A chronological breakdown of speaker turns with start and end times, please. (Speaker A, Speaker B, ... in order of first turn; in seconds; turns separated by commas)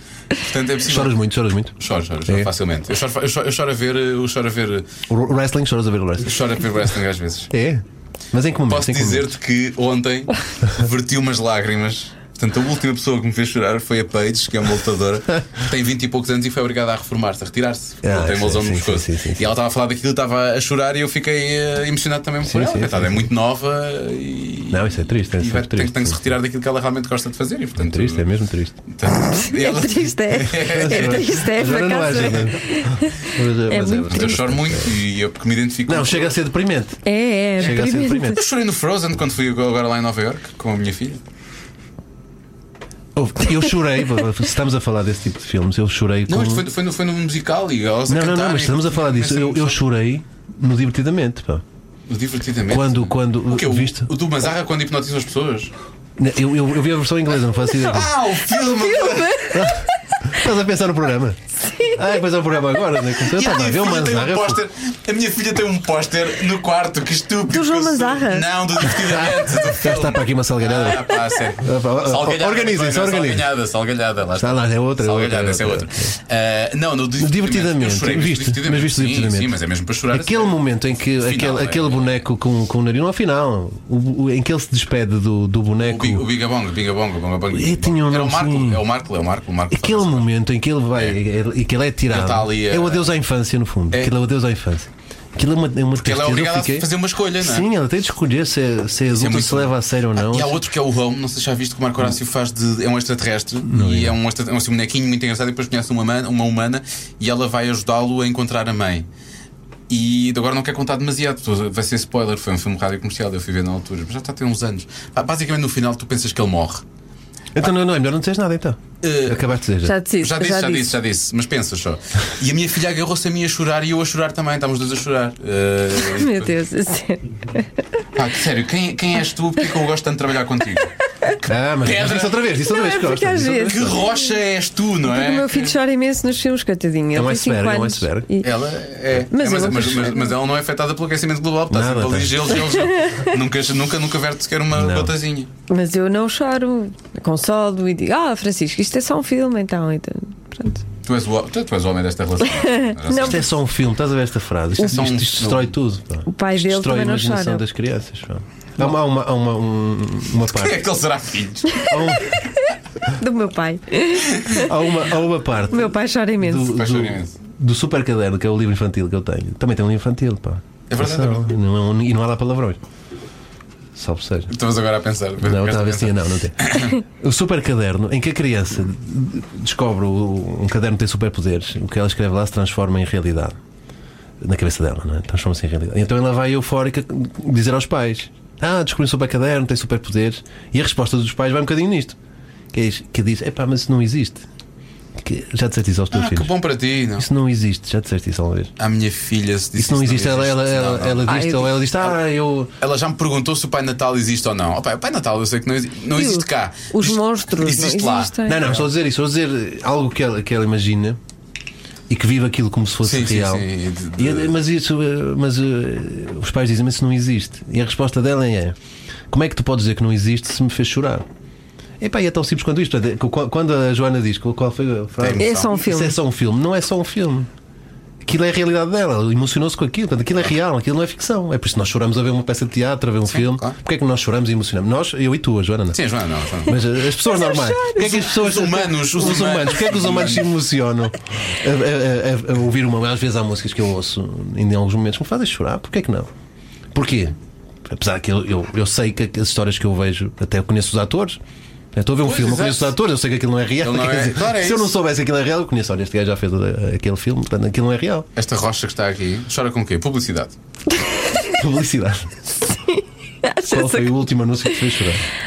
Speaker A: 0.3-1.1, Speaker B: 0.8-1.7, Speaker A: 1.8-4.9, Speaker B: 5.1-6.4, Speaker A: 6.2-7.5, Speaker B: 7.5-9.3, Speaker A: 8.7-28.3, Speaker B: 18.0-19.5, Speaker B: 22.4-23.3, Speaker B: 24.7-26.3, Speaker B: 27.8-28.8, Speaker A: 28.9-32.5, Speaker C: 29.3-34.4, Speaker B: 30.7-35.0, Speaker A: 34.1-36.3, Speaker B: 35.9-37.0, Speaker C: 37.0-38.4, Speaker B: 37.6-38.4, Speaker A: 37.6-41.2, Speaker B: 43.1-46.6, Speaker A: 46.3-49.8, Speaker B: 48.1-51.6, Speaker A: 52.1-55.7, Speaker B: 52.7-54.1, Speaker B: 56.2-58.1, Speaker A: 57.8-59.6, Speaker C: 58.6-59.9, Speaker B: 59.5-61.4, Speaker B: 61.9-64.6, Speaker A: 63.2-80.6, Speaker C: 67.5-68.6, Speaker B: 69.0-73.5, Speaker B: 74.3-76.1, Speaker B: 77.2-79.5, Speaker B: 80.1-86.2, Speaker A: 81.2-82.2, Speaker A: 85.8-90.2, Speaker B: 87.5-88.8, Speaker B: 89.7-100.6, Speaker A: 92.1-93.0, Speaker A: 96.0-97.7, Speaker A: 99.1-109.0, Speaker B: 103.6-104.2, Speaker A: 109.9-116.8, Speaker B: 117.5-119.9, Speaker A: 119.0-119.5, Speaker C: 119.8-121.0, Speaker A: 120.2-126.5, Speaker C: 126.0-127.7, Speaker A: 128.1-132.4, Speaker B: 131.4-134.0, Speaker C: 132.7-134.2, Speaker A: 133.6-135.7, Speaker C: 135.1-138.5, Speaker B: 137.1-138.3, Speaker A: 138.4-145.5, Speaker C: 139.3-140.4, Speaker B: 141.7-142.6, Speaker C: 142.7-143.3, Speaker B: 144.7-145.1, Speaker C: 145.7-150.8, Speaker A: 151.0-153.5, Speaker C: 152.6-153.4, Speaker B: 153.1-160.8, Speaker A: 154.8-155.7, Speaker C: 156.3-157.6, Speaker A: 160.5-161.8, Speaker C: 161.7-164.7, Speaker B: 161.9-162.3, Speaker B: 164.6-172.8, Speaker C: 165.7-166.7, Speaker A: 166.6-167.3, Speaker A: 170.9-171.5, Speaker B: 173.9-174.5, Speaker A: 174.5-176.9, Speaker B: 175.4-183.5, Speaker B: 184.4-192.2, Speaker B: 192.7-194.4, Speaker B: 195.2-196.5, Speaker A: 196.1-197.3, Speaker B: 197.2-198.7, Speaker A: 198.8-201.3, Speaker B: 199.7-202.7, Speaker C: 201.3-201.8, Speaker A: 202.8-208.8, Speaker C: 206.1-208.7, Speaker B: 208.5-211.2, Speaker B: 212.1-213.7, Speaker A: 213.0-214.5, Speaker B: 214.2-218.7, Speaker B: 219.3-221.2, Speaker B: 222.0-227.5, Speaker A: 225.2-225.7, Speaker C: 225.4-226.2, Speaker B: 228.2-236.0, Speaker A: 233.3-233.7, Speaker A: 235.9-236.8, Speaker B: 236.6-246.3, Speaker C: 237.2-238.2, Speaker A: 238.0-240.6, Speaker B: 246.9-251.4, Speaker B: 251.9-258.3, Speaker A: 252.2-252.9, Speaker A: 253.8-254.9, Speaker A: 258.4-260.5, Speaker C: 261.0-261.5, Speaker B: 261.6-262.3, Speaker C: 262.6-264.3, Speaker B: 263.7-265.2